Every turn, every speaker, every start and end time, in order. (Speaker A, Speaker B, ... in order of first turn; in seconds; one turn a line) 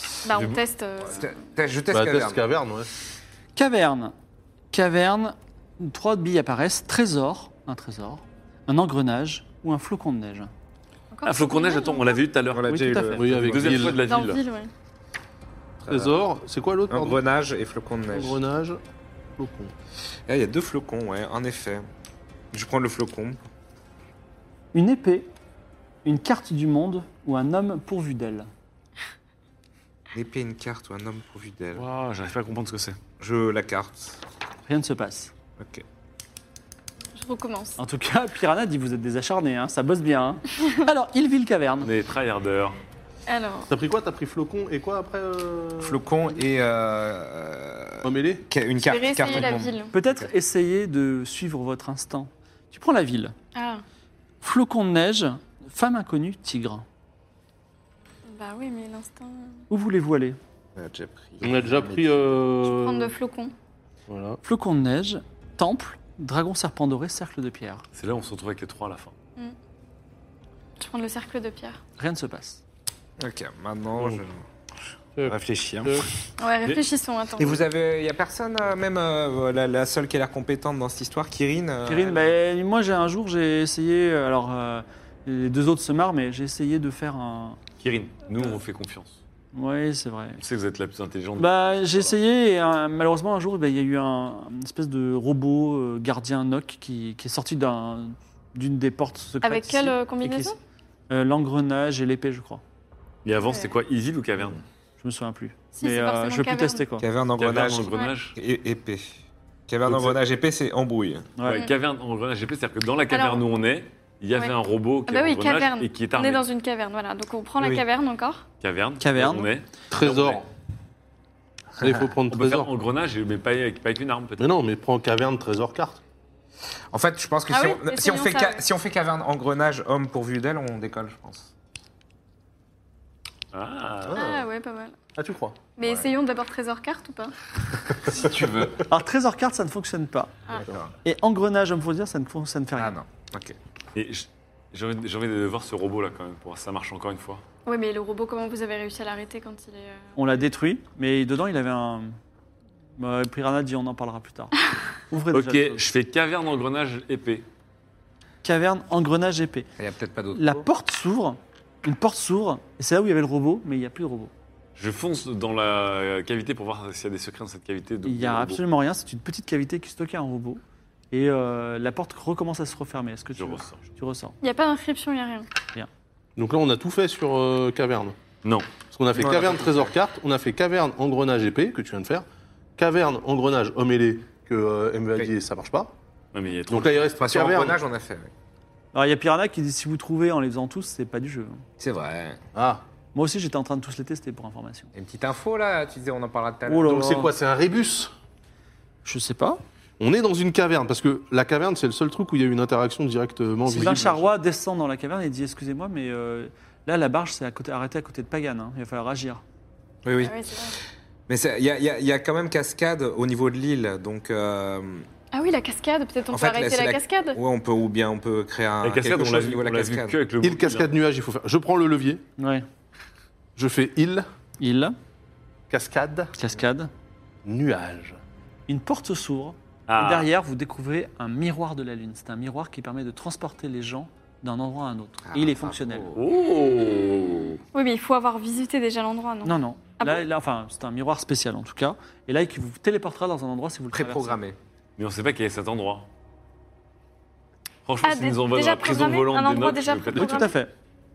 Speaker A: 0.2-1.3
Speaker B: 0.3-0.6
Speaker C: 1.1-2.4
Speaker D: 1.9-2.9
Speaker E: 3.5-4.1
Speaker E: 4.7-10.5
Speaker A: 11.1-12.2
Speaker B: 11.2-14.4
Speaker C: 12.5-13.9
Speaker E: 12.7-13.3
Speaker D: 13.2-14.0
Speaker A: 14.0-14.7
Speaker C: 15.8-16.1
Speaker D: 15.9-17.2
Speaker C: 16.9-18.4
Speaker D: 18.1-18.8
Speaker D: 19.4-19.7
Speaker C: 20.3-21.9
Speaker C: 22.5-23.4
Speaker E: 24.7-25.3
Speaker E: 26.0-28.5
Speaker C: 30.1-31.8
Speaker B: 31.7-33.0
Speaker C: 33.2-33.9
Speaker E: 34.7-35.3
Speaker C: 35.6-35.8
Speaker A: 37.1-37.8
Speaker E: 37.8-41.9
Speaker B: 41.8-42.8
Speaker A: 43.3-43.7
Speaker D: 43.7-46.0
Speaker C: 45.8-50.3
Speaker D: 48.0-48.4
Speaker A: 48.8-49.9
Speaker E: 49.9-53.3
Speaker A: 53.5-53.8
Speaker E: 54.4-56.8
Speaker A: 58.3-59.6
Speaker E: 59.7-60.4
Speaker C: 60.8-62.3
Speaker D: 61.4-63.1
Speaker A: 62.6-63.5
Speaker D: 64.1-64.4
Speaker E: 64.4-67.8
Speaker B: 67.9-69.1
Speaker A: 70.8-71.8
Speaker E: 72.0-72.6
Speaker C: 73.2-74.4
Speaker D: 75.2-76.0
Speaker C: 75.2-76.1
Speaker A: 76.4-77.6
Speaker C: 77.4-82.3
Speaker E: 81.8-87.6
Speaker B: 87.8-89.2
Speaker E: 89.5-90.4
Speaker B: 90.4-92.1
Speaker E: 91.4-100.5
Speaker A: 99.4-100.5
Speaker E: 101.1-102.6
Speaker B: 103.2-104.6
Speaker A: 103.4-103.8
Speaker E: 105.0-107.0
Speaker A: 105.7-106.9
Speaker C: 107.0-109.1
Speaker B: 107.4-108.4
Speaker C: 109.7-111.3
Speaker E: 111.4-111.6
Speaker B: 111.4-116.5
Speaker A: 113.1-113.4
Speaker A: 115.1-118.4
Speaker B: 118.6-120.4
Speaker E: 119.0-119.5
Speaker D: 119.9-120.4
Speaker D: 121.8-122.7
Speaker B: 122.3-124.5
Speaker D: 124.4-126.0
Speaker C: 126.9-131.5
Speaker A: 127.5-128.6
Speaker B: 133.5-134.3
Speaker D: 134.1-134.5
Speaker A: 134.1-134.9
Speaker D: 135.1-135.6
Speaker A: 135.8-137.3
Speaker C: 135.8-136.1
Speaker C: 138.1-138.8
Speaker E: 138.8-140.3
Speaker C: 140.5-140.9
Speaker E: 141.0-143.0
Speaker C: 142.8-143.6
Speaker B: 143.9-147.4
Speaker A: 147.7-150.1
Speaker E: 150.2-152.1
Speaker E: 153.0-155.8
Speaker B: 155.3-157.4
Speaker E: 158.4-159.7
Speaker C: 159.8-160.6
Speaker E: 160.3-164.3
Speaker B: 164.8-168.6
Speaker E: 168.0-170.6
Speaker E: 171.1-174.3
Speaker B: 173.3-173.8
Speaker A: 174.4-175.5
Speaker D: 176.4-178.2
Speaker D: 178.9-182.2
Speaker C: 179.1-179.9
Speaker D: 182.8-185.9
Speaker B: 186.3-187.1
Speaker D: 186.7-187.8
Speaker C: 187.2-188.3
Speaker E: 188.9-191.6
Speaker C: 191.8-192.4
Speaker D: 192.5-192.8
Speaker E: 193.1-194.9
Speaker C: 194.9-196.9
Speaker E: 196.7-197.3
Speaker D: 196.8-198.1
Speaker E: 199.0-199.6
Speaker D: 200.0-204.3
Speaker E: 203.7-209.4
Speaker C: 210.0-210.4
Speaker A: 210.2-210.8
Speaker C: 211.3-215.1
Speaker A: 215.3-217.4
Speaker C: 216.3-220.2
Speaker B: 218.8-220.9
Speaker D: 220.4-222.2
Speaker E: 222.4-222.7
Speaker D: 223.6-224.2
Speaker E: 224.6-224.9
Speaker D: 225.7-226.3
Speaker E: 226.3-226.9
Speaker D: 227.4-228.2
Speaker E: 228.7-236.1
Speaker B: 229.9-230.3
Speaker C: 235.2-236.2
Speaker B: 236.2-237.6
Speaker A: 237.7-240.2
Speaker E: 239.4-244.4
Speaker C: 243.9-244.6
Speaker B: 245.0-246.1
Speaker B: 247.8-250.5
Speaker A: 248.0-250.6
Speaker E: 250.1-250.7